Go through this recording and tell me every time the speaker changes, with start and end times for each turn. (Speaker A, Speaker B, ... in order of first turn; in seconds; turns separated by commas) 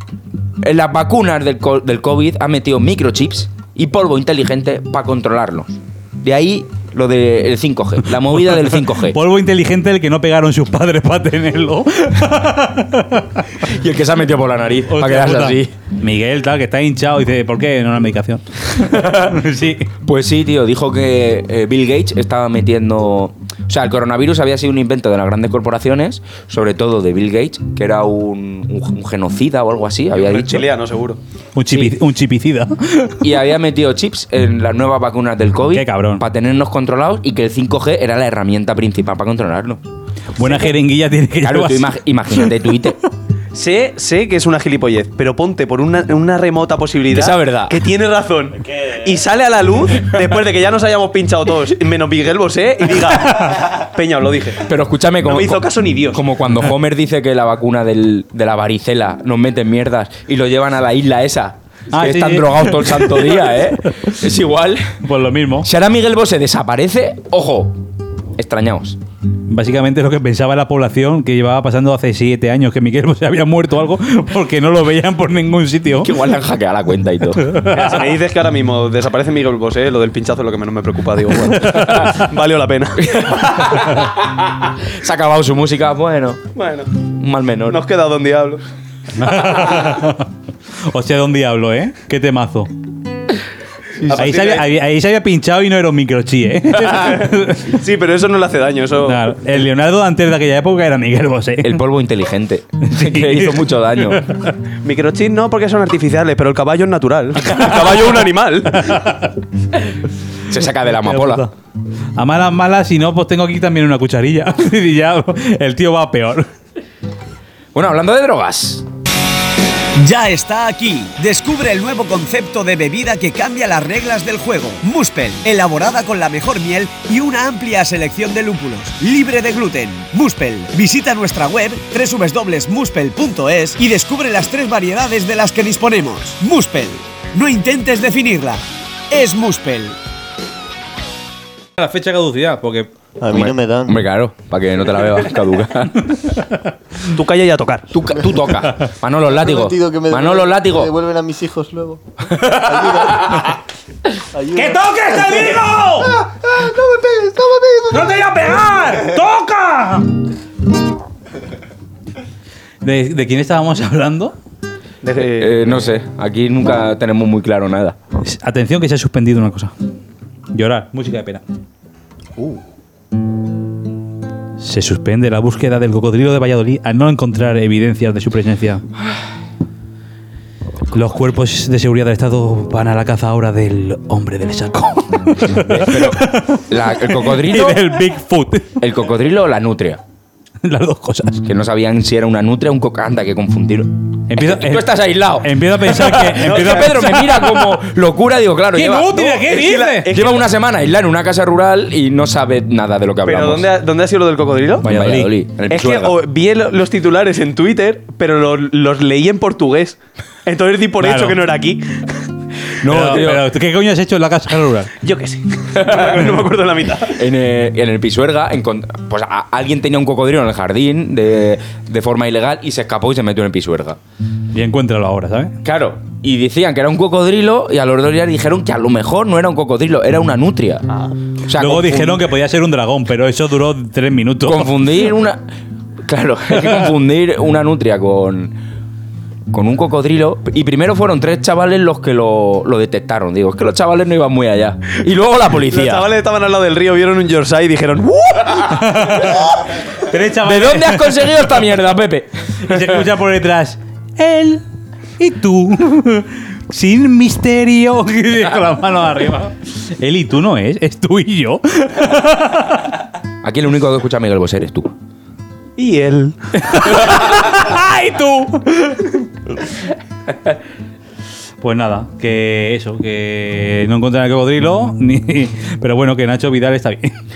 Speaker A: 0.6-9.2, Speaker B: 8.3-13.6, Speaker A: 13.6-15.7, Speaker B: 14.9-19.9, Speaker A: 18.8-19.4, Speaker A: 20.0-30.7, Speaker C: 30.1-31.2, Speaker B: 31.6-33.2, Speaker A: 31.7-32.0, Speaker A: 33.2-39.8, Speaker B: 35.7-36.2, Speaker B: 40.4-42.5, Speaker A: 41.4-43.0, Speaker C: 43.5-54.7, Speaker A: 47.1-47.8, Speaker D: 48.7-49.1, Speaker A: 54.6-65.0, Speaker C: 55.2-56.3, Speaker B: 61.9-64.0, Speaker B: 65.0-65.7, Speaker A: 65.6-67.8, Speaker A: 68.4-69.0, Speaker B: 69.5-76.1, Speaker A: 76.0-77.5, Speaker B: 77.4-78.0, Speaker C: 77.7-83.8, Speaker B: 81.7-82.1, Speaker A: 83.1-86.4, Speaker C: 86.5-86.9, Speaker A: 87.2-87.8, Speaker C: 87.7-88.6, Speaker B: 89.2-90.3, Speaker B: 90.9-92.7, Speaker C: 94.0-94.7, Speaker B: 94.1-97.7, Speaker C: 96.9-99.2, Speaker B: 99.0-101.8, Speaker A: 101.6-104.2, Speaker B: 102.8-104.5, Speaker C: 104.8-109.0, Speaker B: 107.4-108.0, Speaker B: 108.7-109.3, Speaker A: 110.5-111.5, Speaker B: 111.0-111.5, Speaker B: 112.2-116.5, Speaker A: 117.7-118.9, Speaker E: 120.0-140.0, Speaker B: 141.8-142.9, Speaker D: 143.2-144.0, Speaker A: 143.3-146.2, Speaker C: 147.1-147.8, Speaker A: 147.9-150.9, Speaker D: 149.2-153.6, Speaker A: 152.5-153.0, Speaker D: 154.3-158.1, Speaker B: 154.5-156.2, Speaker B: 157.9-160.1, Speaker B: 162.8-164.3, Speaker C: 165.0-165.9, Speaker A: 165.2-168.0, Speaker B: 168.2-169.7, Speaker B: 170.5-171.4, Speaker B: 174.6-178.8, Speaker B: 180.9-188.8, Speaker A: 185.5-188.0, Speaker A: 188.8-190.0, Speaker B: 190.6-191.4, Speaker A: 191.4-199.5, Speaker B: 194.3-197.8, Speaker C: 196.4-197.2, Speaker B: 198.7-200.1, Speaker C: 199.4-200.4, Speaker A: 200.0-203.7, Speaker C: 203.2-204.9, Speaker A: 204.8-206.2, Speaker B: 204.8-205.3, Speaker C: 205.7-212.0, Speaker B: 211.0-211.4, Speaker A: 212.8-213.5, Speaker B: 212.9-214.9, Speaker C: 215.0-217.2, Speaker A: 215.8-216.3, Speaker A: 217.1-224.0, Speaker B: 224.5-225.6, Speaker A: 225.6-230.8, Speaker A: 231.4-232.3, Speaker B: 231.5-234.7, Speaker A: 234.4-235.4, Speaker A: 236.1-238.6, Speaker A: 239.5-246.1, Speaker C: 245.7-249.3, Speaker B: 248.7-251.3, Speaker A: 250.4-253.0, Speaker B: 252.6-254.6, Speaker B: 255.2-262.9, Speaker A: 263.4-264.9, Speaker C: 265.8-266.4, Speaker B: 266.6-269.2, Speaker B: 271.6-277.2